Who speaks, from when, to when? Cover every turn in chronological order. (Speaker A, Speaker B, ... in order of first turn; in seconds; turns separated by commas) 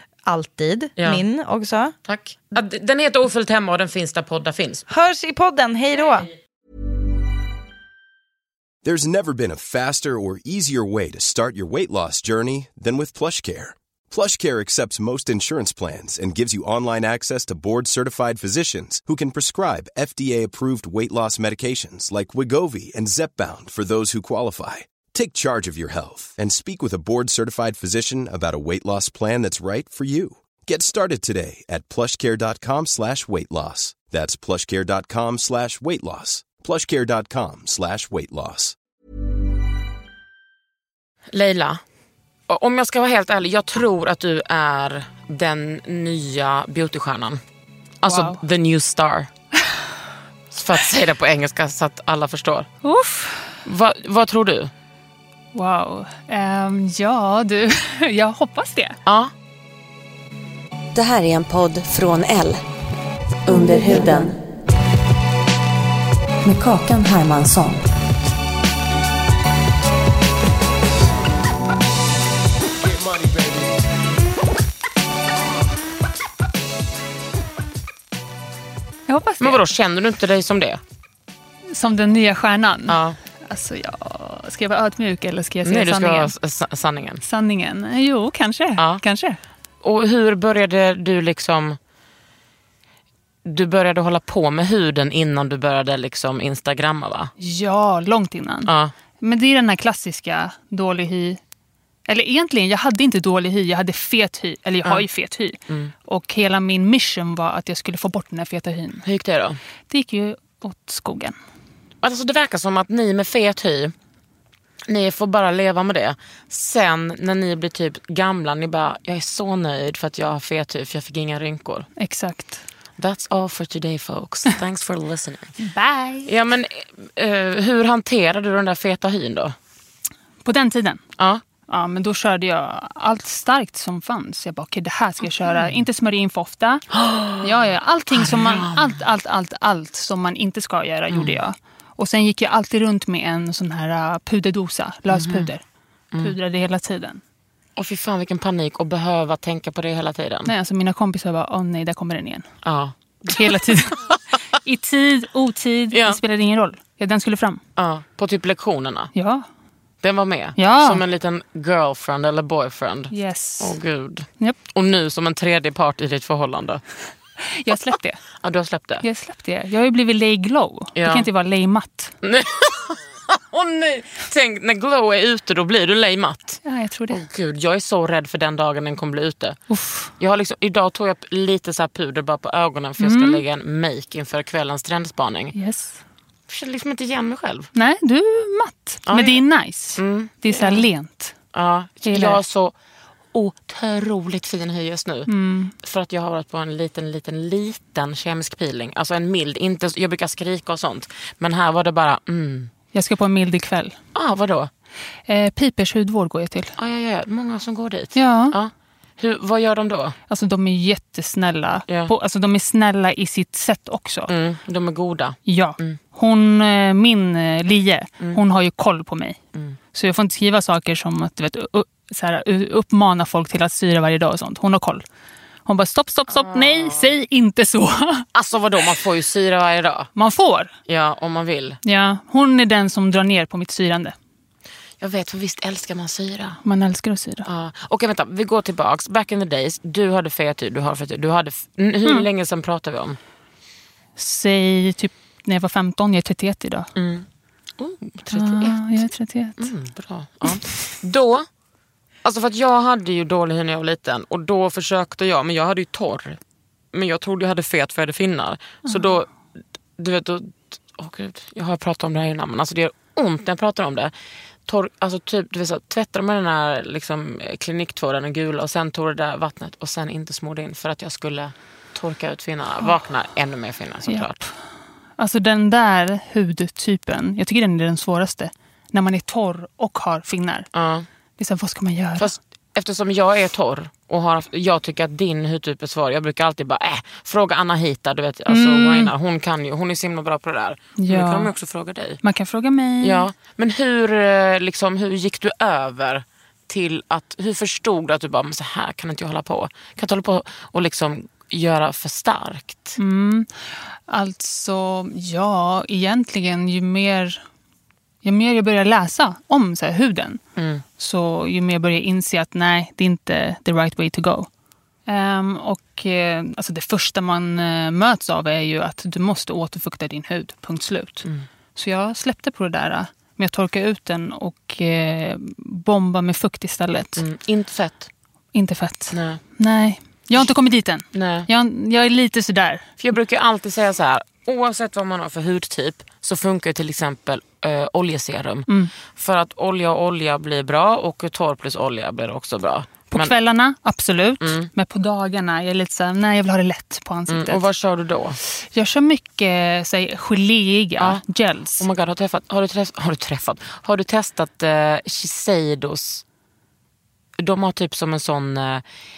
Speaker A: 0.2-1.9, Speaker B: 2.1-4.8, Speaker A: 4.9-6.3, Speaker C: 8.8-38.8, Speaker B: 41.3-41.8, Speaker B: 42.5-47.4, Speaker B: 48.0-49.3, Speaker D: 48.1-48.4, Speaker B: 50.5-52.7, Speaker D: 52.8-53.5, Speaker B: 53.6-54.7, Speaker D: 55.5-59.0, Speaker B: 59.0-59.3, Speaker E: 60.9-62.6, Speaker E: 63.5-64.4, Speaker E: 66.4-67.8, Speaker D: 79.1-79.6, Speaker B: 79.4-80.8, Speaker D: 81.7-86.3, Speaker B: 82.9-83.2, Speaker B: 85.6-87.2, Speaker D: 87.2-89.4, Speaker B: 89.8-91.8, Speaker B: 93.4-97.3, Speaker D: 97.4-101.4, Speaker B: 98.6-98.9, Speaker D: 102.1-109.0, Speaker B: 109.0-109.6, Speaker D: 109.9-111.3, Speaker B: 112.0-113.9, Speaker B: 114.9-121.9, Speaker D: 122.0-122.6, Speaker B: 123.0-125.6, Speaker D: 125.6-126.3, Speaker B: 126.2-129.5, Speaker D: 130.4-131.0, Speaker D: 131.7-136.8, Speaker B: 136.9-139.0, Speaker D: 137.4-145.6, Speaker B: 141.1-141.4, Speaker B: 145.1-145.5, Speaker D: 146.2-147.2, Speaker B: 147.8-150.5, Speaker D: 150.4-152.5, Speaker B: 152.6-154.2, Speaker D: 153.3-154.0, Speaker D: 154.6-157.6, Speaker B: 155.9-156.2, Speaker B: 157.8-159.1, Speaker D: 159.1-159.4, Speaker B: 160.0-166.8, Speaker D: 160.6-161.0, Speaker D: 163.1-163.8, Speaker D: 167.4-168.2, Speaker B: 168.4-169.0, Speaker D: 169.0-172.1, Speaker B: 171.0-171.3, Speaker B: 172.2-179.6, Speaker D: 176.6-177.2, Speaker D: 179.7-180.1, Speaker B: 180.2-185.5, Speaker D: 183.0-183.4, Speaker D: 185.5-186.0, Speaker B: 186.5-187.7, Speaker D: 187.7-191.3, Speaker B: 189.1-189.4, Speaker B: 189.9-190.9, Speaker B: 191.5-192.7, Speaker D: 192.1-192.4, Speaker B: 193.3-195.3, Speaker D: 195.3-195.7, Speaker B: 195.8-202.7, Speaker D: 202.9-203.9, Speaker B: 204.1-204.7, Speaker D: 205.3-206.7, Speaker B: 206.8-210.2, Speaker D: 208.1-208.5, Speaker D: 210.3-214.3, Speaker B: 214.3-216.0, Speaker D: 215.4-219.4, Speaker D: 219.9-225.0, Speaker D: 225.7-228.3, Speaker B: 226.3-227.1, Speaker B: 228.3-230.1, Speaker D: 230.2-230.7, Speaker B: 230.9-231.8, Speaker D: 231.8-234.1, Speaker B: 235.0-236.6, Speaker D: 236.6-237.5, Speaker B: 237.4-243.2, Speaker D: 244.2-246.9, Speaker B: 246.9-247.2, Speaker B: 247.8-249.0, Speaker D: 248.3-249.7, Speaker B: 249.6-251.4, Speaker B: 252.2-256.4, Speaker B: 256.9-259.3, Speaker D: 258.8-259.1, Speaker B: 260.0-264.1, Speaker B: 264.7-274.4, Speaker D: 274.1-274.5, Speaker D: 275.2-280.7, Speaker B: 280.7-281.1, Speaker D: 281.4-282.3, Speaker B: 282.2-292.2, Speaker D: 288.5-289.1, Speaker D: 291.0-291.5, Speaker D: 292.2-293.2, Speaker B: 293.0-303.0, Speaker D: 303.0-307.4, Speaker D: 308.2-310.4, Speaker B: 310.6-310.8, Speaker D: 311.0-314.5, Speaker D: 315.1-327.2, Speaker B: 327.2-328.1, Speaker D: 328.5-332.9, Speaker B: 329.1-329.4, Speaker B: 331.1-331.5, Speaker B: 333.0-343.3, Speaker D: 343.1-347.6, Speaker B: 344.4-344.7, Speaker B: 347.3-348.4, Speaker D: 348.6-351.9, Speaker B: 351.8-356.2, Speaker B: 357.4-358.8